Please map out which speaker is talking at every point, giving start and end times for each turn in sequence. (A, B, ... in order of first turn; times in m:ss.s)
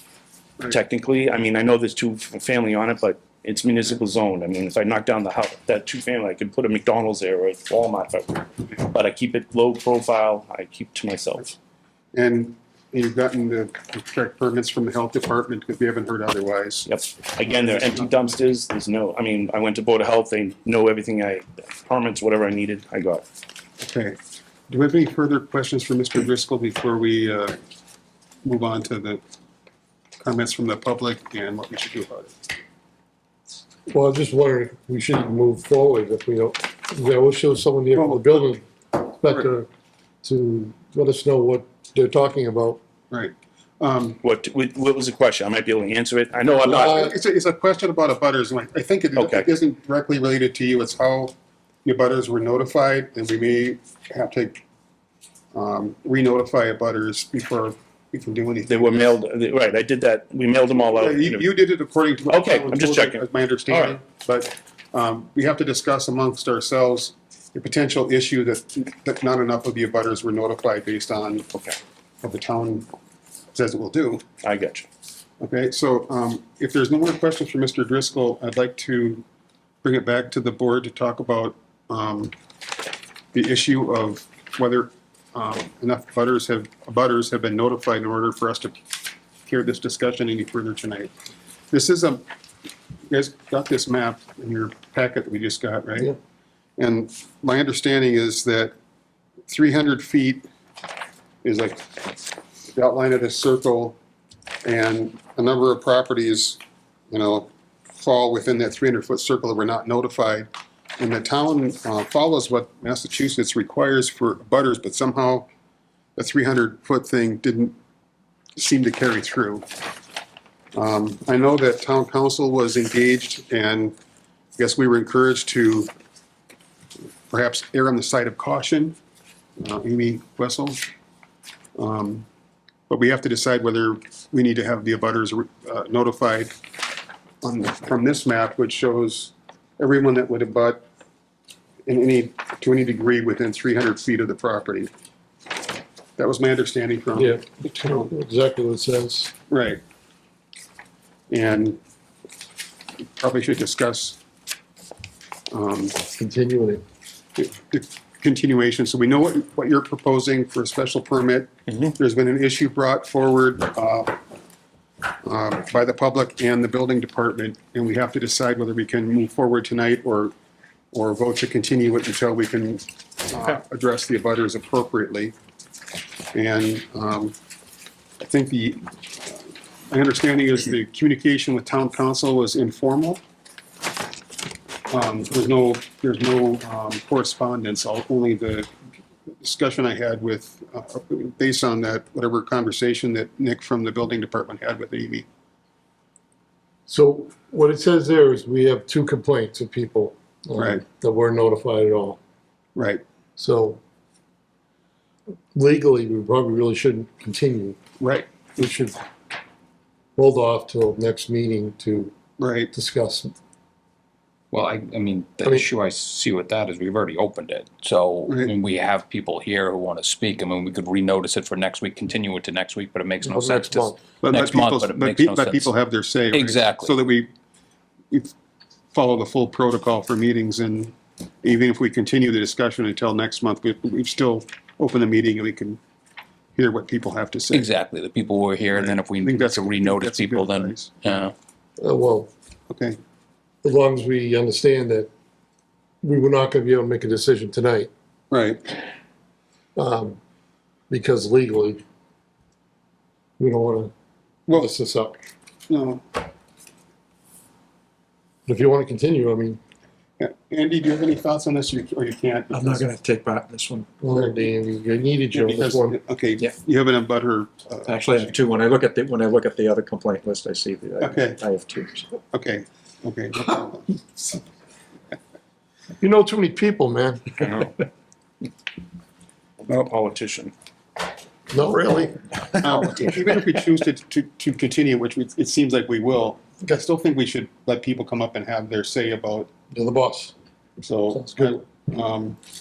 0:00.6-0:11.5 A
0:12.1-0:16.9 B
0:16.9-0:23.2 A
0:17.4-0:18.3 B
0:23.8-0:24.2 B
0:24.7-0:27.6 B
0:28.4-0:29.2 B
0:30.2-0:32.4 B
0:33.9-0:39.7 C
0:38.0-0:38.5 B
0:39.2-0:39.5 B
0:40.2-0:42.8 C
0:43.1-0:44.2 B
0:44.2-0:47.1 A
0:46.6-0:51.3 B
0:46.8-0:47.1 C
0:49.2-0:49.5 A
0:51.8-0:54.6 B
0:55.5-0:59.2 B
0:58.7-1:01.5 A
1:00.8-1:11.5 B
1:02.3-1:04.0 A
1:12.2-1:12.9 B
1:13.5-1:14.3 B
1:14.4-1:14.9 A
1:15.4-1:19.2 B
1:19.8-1:22.3 B
1:23.3-1:28.8 B
1:29.5-1:31.1 B
1:31.7-1:32.2 B
1:33.1-1:36.1 B
1:36.8-1:38.8 B
1:39.5-1:40.4 B
1:41.4-1:42.1 B
1:42.7-1:44.0 B
1:44.6-1:46.6 B
1:47.1-1:55.5 B
1:56.2-1:57.8 B
1:58.6-1:59.7 B
2:00.8-2:04.0 B
2:04.6-2:05.9 B
2:07.3-2:09.0 B
2:09.6-2:10.8 B
2:11.8-2:12.3 B
2:12.9-2:16.6 B
2:17.4-2:20.8 B
2:21.9-2:24.9 B
2:26.2-2:28.1 B
2:27.2-2:29.3 C
2:29.5-2:29.8 B
2:31.3-2:31.8 B
2:33.2-2:34.2 B
2:35.5-2:36.0 B
2:36.2-2:36.8 C
2:37.4-2:44.2 B
2:45.2-2:50.3 B
2:50.9-2:55.3 B
2:56.3-2:57.4 B
2:58.2-3:03.2 B
3:04.9-3:08.7 B
3:09.4-3:15.3 B
3:16.9-3:22.2 C
3:20.6-3:20.8 B
3:22.8-3:23.0 B
3:23.4-3:23.8 C
3:25.5-3:27.8 C
3:28.0-3:28.3 B
3:28.6-3:29.0 C
3:30.2-3:32.1 C
3:32.4-3:32.7 B
3:32.7-3:33.4 C
3:34.5-3:45.7 D
3:38.3-3:38.5 B
3:43.2-3:44.0 C
3:44.2-3:47.3 B
3:46.3-3:46.9 D
3:48.9-3:55.8 B
3:56.6-3:57.7 B
3:57.5-4:01.3 D
3:58.8-4:01.1 B
4:01.8-4:02.3 C
4:02.7-4:03.0 B
4:03.6-4:05.1 C
4:06.0-4:07.9 C
4:08.3-4:08.7 B
4:09.8-4:10.2 C
4:10.9-4:11.8 C
4:13.4-4:13.9 C
4:14.5-4:15.2 C
4:15.7-4:16.0 B
4:18.5-4:19.6 C
4:20.2-4:22.9 B
4:22.5-4:23.9 E
4:24.0-4:26.0 C
4:25.3-4:28.3 B
4:27.8-4:32.1 E
4:31.0-4:31.4 B
4:32.3-4:34.4 B
4:36.0-4:37.6 C
4:37.4-4:37.7 A
4:39.7-4:40.5 A
4:41.5-4:42.2 C
4:42.6-4:49.5 B
4:49.7-4:50.3 C
4:50.8-4:52.4 B
4:51.1-4:51.6 C